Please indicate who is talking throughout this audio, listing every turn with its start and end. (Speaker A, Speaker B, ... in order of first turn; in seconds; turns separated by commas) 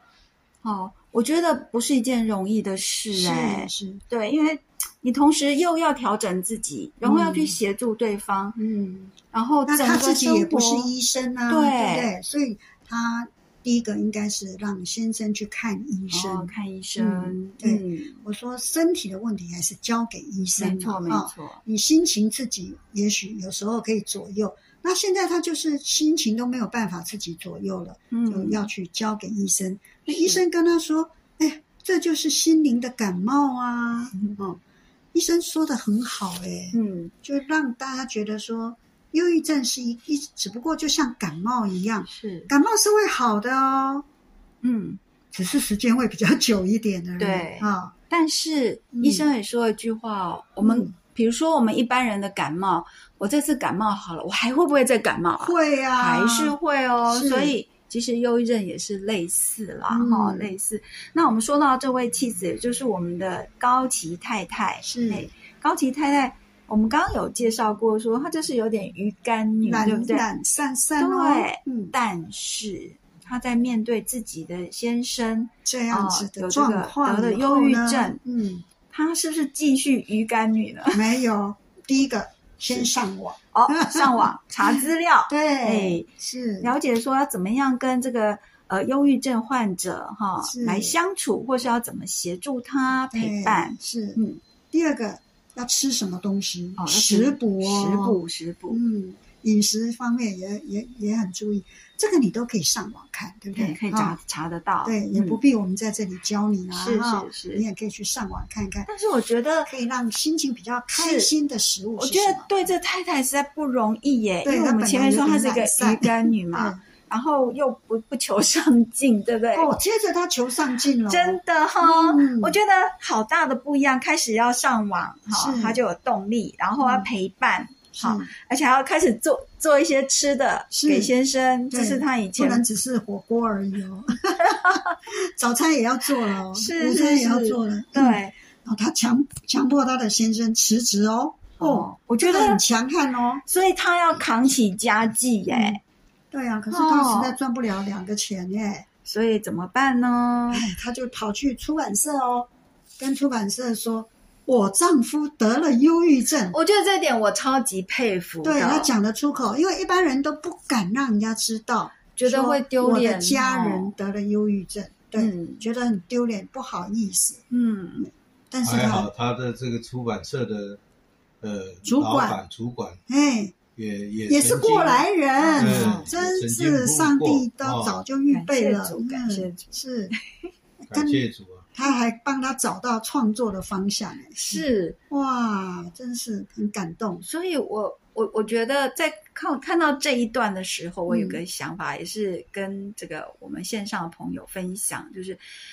Speaker A: 0.6-8.6, Speaker B: 3.1-4.0, Speaker B: 7.0-7.6, Speaker B: 8.6-9.1, Speaker A: 9.3-10.9, Speaker B: 9.7-34.6, Speaker A: 11.5-12.1, Speaker A: 16.1-18.2, Speaker A: 20.6-21.6, Speaker A: 28.1-28.7, Speaker A: 30.1-30.4, Speaker B: 35.1-44.0, Speaker A: 36.7-37.1, Speaker A: 42.0-42.5, Speaker A: 44.6-45.0, Speaker B: 45.3-47.9, Speaker A: 47.2-70.2, Speaker B: 48.9-49.2, Speaker B: 50.6-50.9, Speaker B: 55.4-56.5, Speaker B: 57.1-57.5, Speaker B: 59.9-60.5, Speaker B: 64.8-65.3, Speaker B: 69.6-71.9, Speaker A: 71.0-78.2, Speaker B: 75.6-78.7, Speaker A: 78.9-81.0, Speaker B: 80.9-84.8, Speaker A: 83.5-86.1, Speaker B: 85.3-86.7, Speaker A: 86.6-94.4, Speaker B: 90.4-90.9, Speaker B: 93.1-94.2, Speaker B: 94.7-104.2, Speaker A: 96.8-98.8, Speaker A: 103.5-105.4, Speaker B: 104.8-108.9, Speaker A: 106.7-107.6, Speaker A: 108.9-109.7, Speaker B: 109.7-112.5, Speaker A: 110.9-111.3, Speaker A: 112.0-119.7, Speaker B: 114.4-116.8, Speaker B: 119.5-122.6, Speaker A: 121.1-132.6, Speaker B: 125.3-125.8, Speaker B: 126.8-127.1, Speaker B: 128.0-128.3, Speaker B: 130.7-131.1, Speaker B: 131.7-143.4, Speaker A: 134.4-135.0, Speaker A: 136.5-138.3, Speaker A: 141.6-142.6, Speaker A: 143.4-145.8, Speaker B: 145.5-145.8, Speaker B: 146.3-148.8, Speaker A: 146.7-147.3, Speaker A: 149.0-150.6, Speaker B: 150.5-156.6, Speaker A: 156.5-158.9, Speaker B: 158.4-167.4, Speaker A: 162.2-163.9, Speaker A: 165.2-165.6, Speaker A: 167.5-168.1, Speaker B: 168.0-169.1, Speaker C: 168.6-170.8, Speaker C: 171.4-173.0, Speaker B: 171.8-172.4, Speaker B: 173.1-173.6, Speaker C: 173.8-175.0, Speaker B: 174.3-180.1, Speaker A: 175.4-176.1, Speaker C: 175.6-178.0, Speaker A: 178.3-180.1, Speaker B: 180.8-181.2, Speaker C: 180.9-181.7, Speaker B: 181.7-187.2, Speaker A: 184.5-185.0, Speaker A: 187.2-195.4, Speaker B: 191.1-191.4